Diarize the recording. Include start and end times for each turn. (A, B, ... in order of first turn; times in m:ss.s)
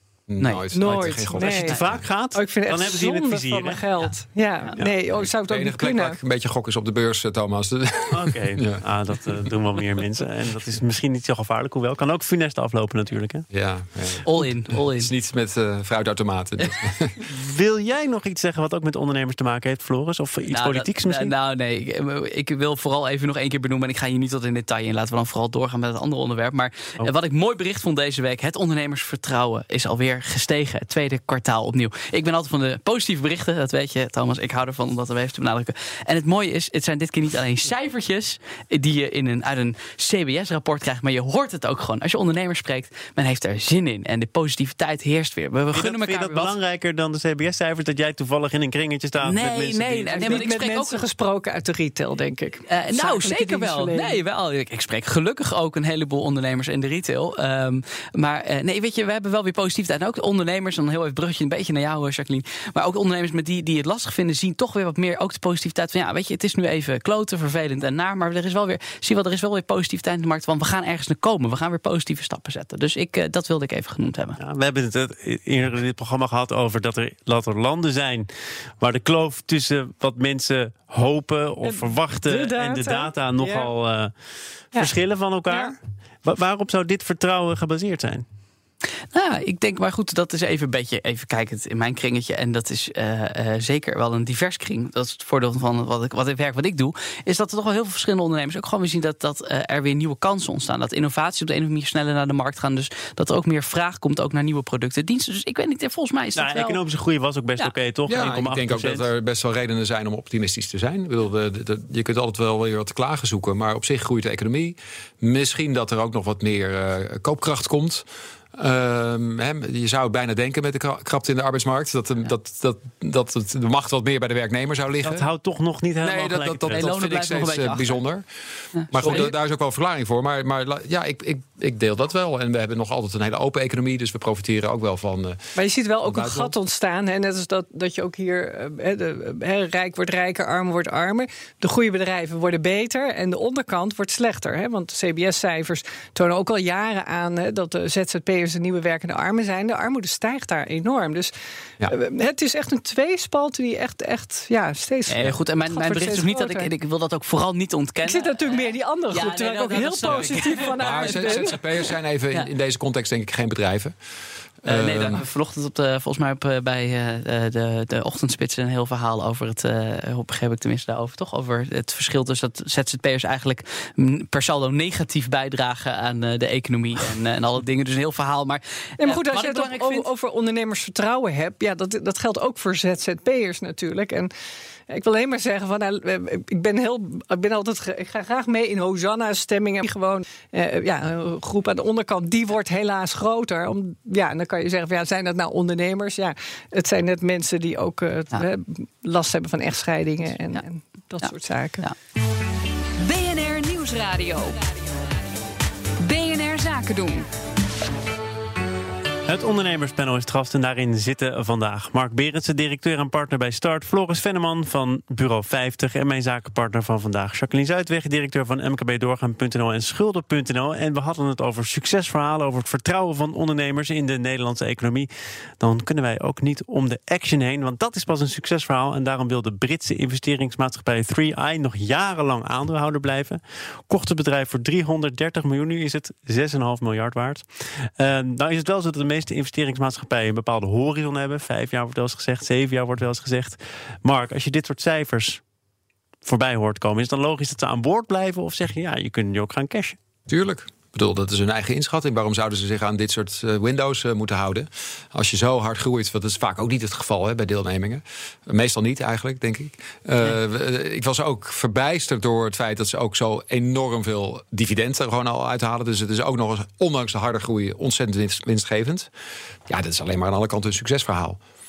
0:00.3-0:02.0 A
0:00.4-0:00.6 B
0:00.7-0:01.8 C
0:01.4-0:03.8 D
0:02.3-0:06.2 C
0:04.8-0:08.8 A
0:08.1-0:13.4 D
0:13.5-0:17.2 A
0:14.2-0:15.1 B
0:17.3-0:21.3 D
0:20.5-0:46.5 B
0:45.7-0:50.5 D
0:49.2-0:51.0 B
0:50.1-0:54.2 C
0:52.7-1:14.4 B
1:14.4-1:18.3 D
1:18.8-1:24.1 D
1:21.6-1:23.7 C
1:24.7-1:28.2 D
1:25.5-1:25.8 C
1:29.1-1:46.8 B
1:46.4-1:49.0 D
1:48.1-2:05.3 A
2:05.0-2:06.8 D
2:06.0-2:08.2 A
2:06.7-2:08.0 B
2:08.7-2:09.3 B
2:08.9-2:16.5 A
2:15.6-2:31.3 C
2:31.8-2:36.7 C
2:35.1-2:41.6 B
2:38.0-2:41.6 C
2:40.8-2:43.9 A
2:44.6-2:45.2 A
2:44.6-3:00.1 B
2:59.0-3:04.3 C
3:04.9-3:21.8 C
3:21.2-3:21.9 B
3:23.0-3:24.6 E
3:26.0-3:27.2 E
3:29.3-4:05.4 D
4:06.2-4:10.0 D
4:10.3-4:29.1 A
4:29.7-4:31.4 A